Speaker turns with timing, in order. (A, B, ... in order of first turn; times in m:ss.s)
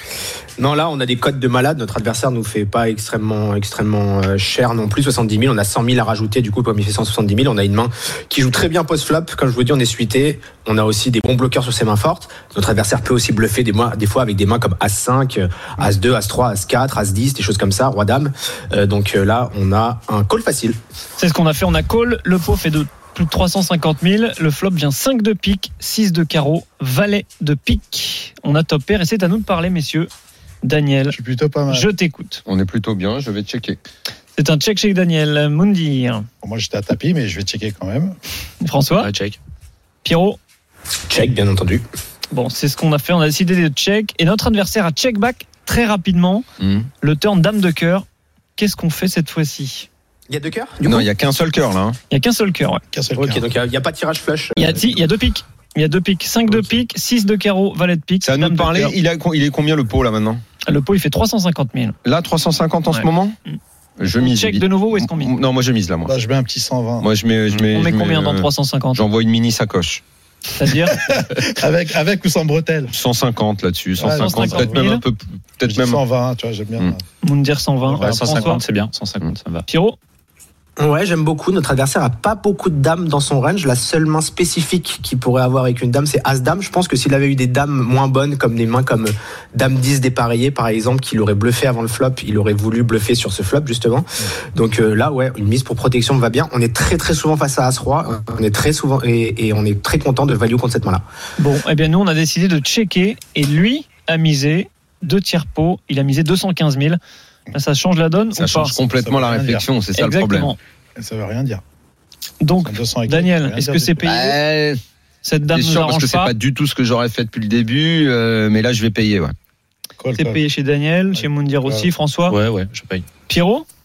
0:00.6-0:20.8 A
0:21.2-0:30.1 B
0:30.6-0:31.2 B
0:31.1-0:31.9 C
0:31.7-0:32.4 B
0:32.4-0:33.8 D
0:34.4-0:36.3 B
0:36.4-0:38.2 C
0:38.6-0:39.1 B
0:39.0-0:39.4 E
0:40.0-0:40.4 B
0:41.1-0:41.8 A
0:42.3-0:46.4 B
0:46.6-0:46.9 D
0:47.0-0:48.0 B
0:48.6-0:49.9 B
0:50.3-0:51.1 A
0:50.8-0:52.0 D
0:52.1-0:52.8 B
0:52.9-0:53.4 C
0:53.2-0:55.0 A
0:54.6-0:58.9 B
0:58.2-1:00.4 D
1:00.6-1:02.0 B
1:02.0-1:03.4 D
1:02.9-1:03.6 B
1:04.0-1:06.1 D
1:04.2-1:05.3 B
1:06.0-1:07.1 C
1:07.0-1:10.0 D
1:07.7-1:09.0 B
1:10.6-1:11.0 B
1:10.9-1:12.9 C
1:12.9-1:16.0 D
1:14.0-1:14.8 C
1:14.1-1:15.0 B
1:15.6-1:17.0 C
1:17.2-1:18.6 B
1:17.9-1:18.6 C
1:17.9-1:19.6 E
1:19.7-1:20.0 B
1:20.8-1:41.0 A
1:41.4-1:47.0 B
1:47.5-1:48.8 B
1:48.3-1:50.5 D
1:48.9-1:49.7 C
1:49.9-1:50.6 B
1:51.0-1:51.6 C
1:52.4-1:54.4 B
1:52.6-1:54.0 C
1:54.0-1:54.8 D
1:55.2-1:56.3 B
1:55.5-1:59.3 D
2:00.0-2:00.4 C
2:00.2-2:02.4 B
2:01.2-2:01.9 C
2:02.3-2:03.1 E
2:03.3-2:03.6 B